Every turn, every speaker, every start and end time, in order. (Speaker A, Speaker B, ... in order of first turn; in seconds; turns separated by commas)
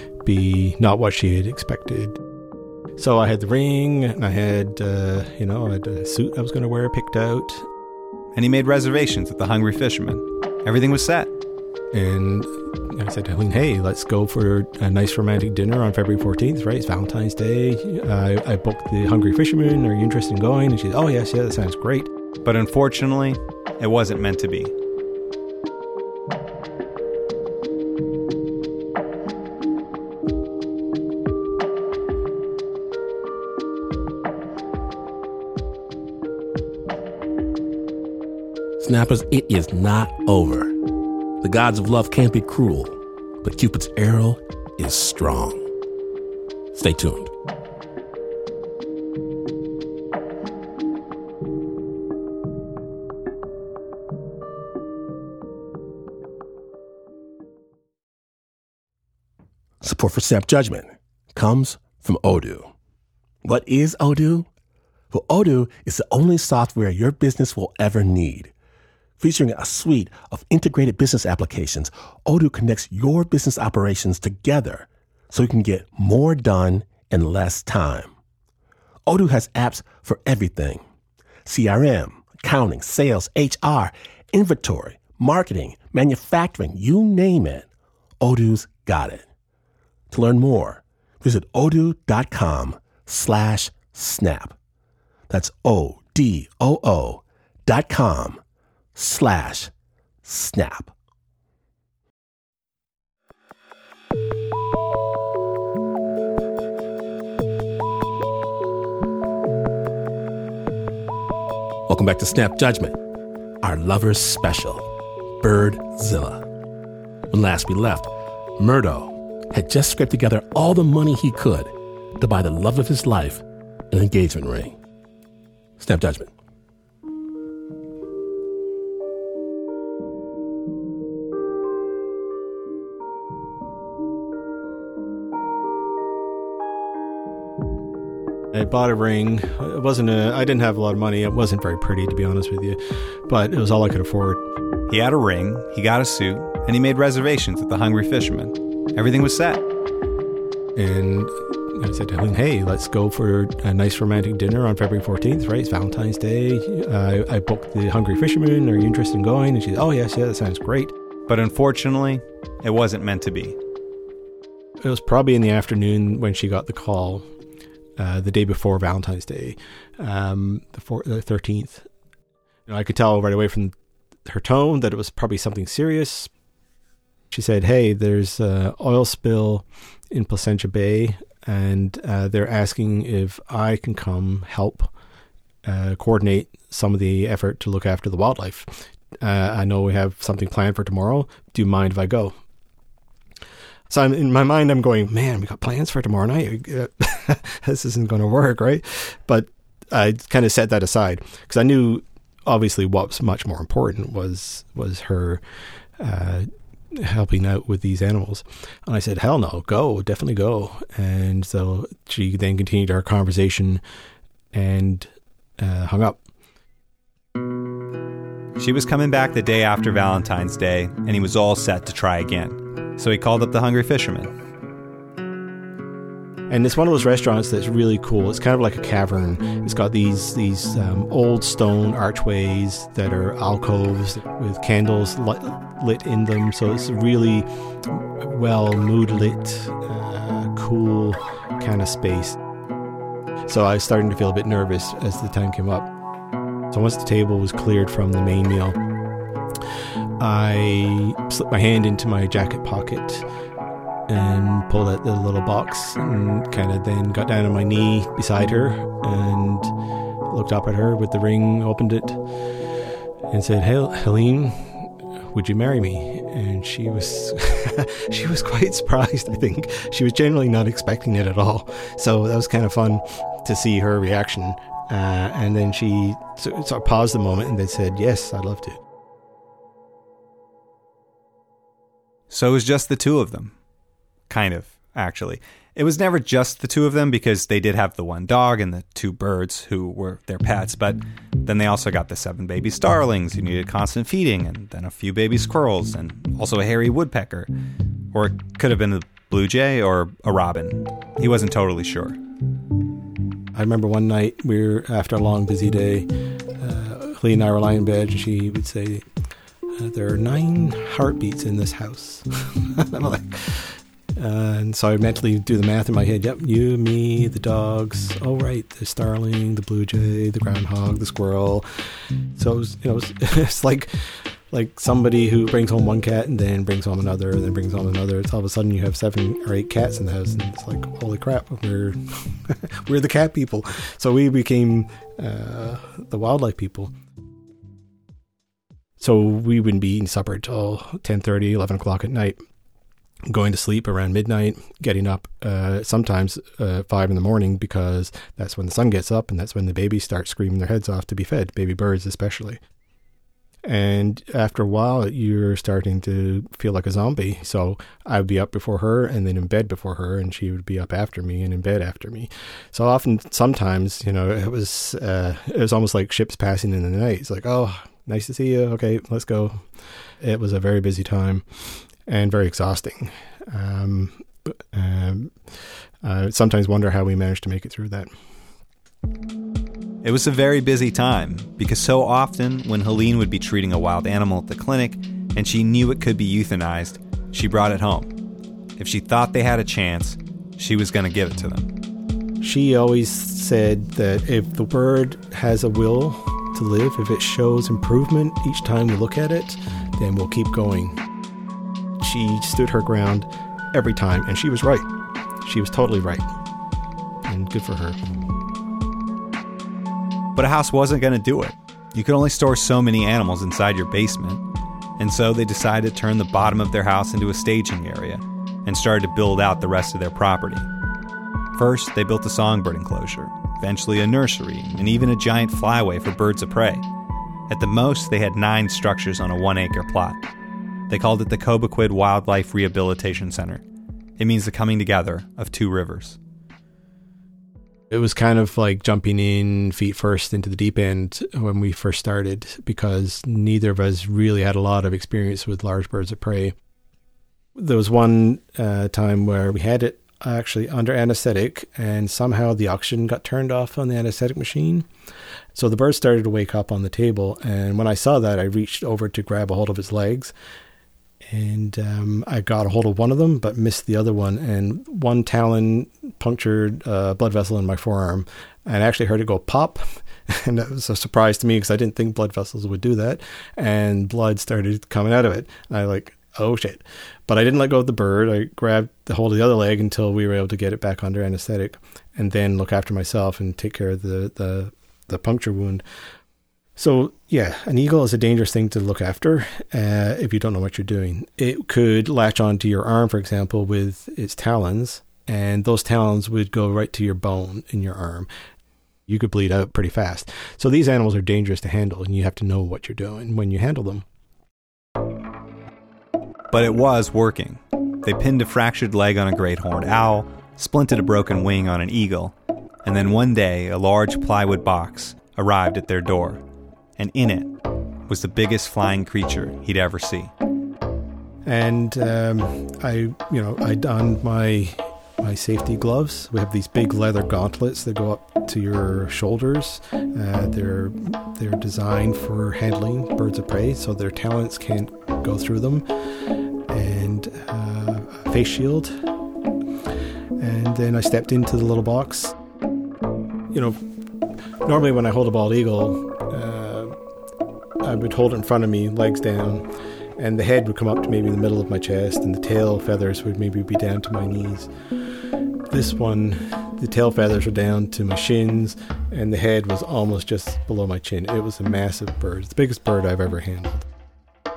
Speaker A: 0.2-2.2, Speaker A: 3.0-7.7, Speaker B: 8.3-11.3, Speaker A: 11.9-22.1, Speaker B: 22.4-24.7, Speaker C: 38.8-40.8, Speaker C: 41.4-45.7, Speaker C: 46.7-47.3, Speaker C: 59.8-62.7, Speaker C: 63.4-64.5, Speaker C: 65.1-68.5, Speaker C: 69.2-78.1, Speaker C: 79.1-80.8, Speaker C: 81.5-87.7, Speaker C: 88.2-89.2, Speaker C: 90.1-94.6, Speaker C: 95.3-98.4, Speaker C: 99.0-99.7, Speaker C: 100.2-100.9, Speaker C: 111.9-113.0, Speaker C: 113.6-116.5, Speaker C: 117.3-124.8, Speaker C: 125.8-126.3, Speaker A: 138.5-144.4, Speaker B: 144.9-149.6, Speaker A: 150.8-160.9, Speaker B: 161.3-163.6, Speaker A: 164.8-167.3, Speaker A: 168.0-171.9, Speaker A: 172.7-173.7, Speaker A: 174.3-176.3, Speaker A: 177.3-184.9, Speaker A: 185.7-192.4, Speaker A: 193.9-205.4, Speaker A: 206.0-213.8, Speaker A: 214.5-216.2, Speaker B: 218.6-224.3, Speaker A: 226.5-242.4, Speaker A: 243.5-245.9, Speaker A: 246.7-248.8, Speaker A: 250.2-253.3, Speaker A: 254.1-259.7, Speaker A: 260.3-262.2, Speaker A: 263.3-278.8, Speaker B: 282.3-283.5, Speaker B: 284.3-297.5, Speaker B: 298.1-302.2, Speaker A: 303.5-309.1, Speaker A: 309.7-321.7, Speaker A: 322.3-323.9, Speaker A: 324.5-336.9, Speaker A: 339.0-342.4, Speaker A: 343.3-352.6, Speaker A: 353.6-369.7, Speaker A: 370.2-375.4, Speaker A: 376.0-378.1, Speaker B: 380.0-388.1, Speaker B: 388.8-391.7, Speaker A: 392.4-401.0, Speaker A: 402.0-404.9, Speaker A: 405.4-406.3, Speaker A: 407.3-408.0, Speaker B: 410.4-414.4, Speaker B: 415.0-420.7, Speaker B: 421.5-426.9, Speaker B: 427.5-430.2, Speaker B: 430.9-433.6, Speaker B: 434.2-436.2, Speaker A: 437.9-446.6, Speaker A: 447.6-454.9, Speaker A: 455.6-460.3, Speaker A: 461.2-485.8, Speaker A: 486.8-498.3, Speaker A: 499.1-504.1, Speaker B: 506.5-512.3, Speaker B: 512.9-516.4, Speaker B: 517.0-517.5, Speaker B: 518.1-520.3, Speaker A: 521.5-535.9, Speaker A: 536.7-539.0, Speaker A: 540.4-542.4, Speaker A: 543.5-543.8, Speaker A: 544.6-546.9, Speaker A: 547.8-554.7, Speaker A: 555.7-563.9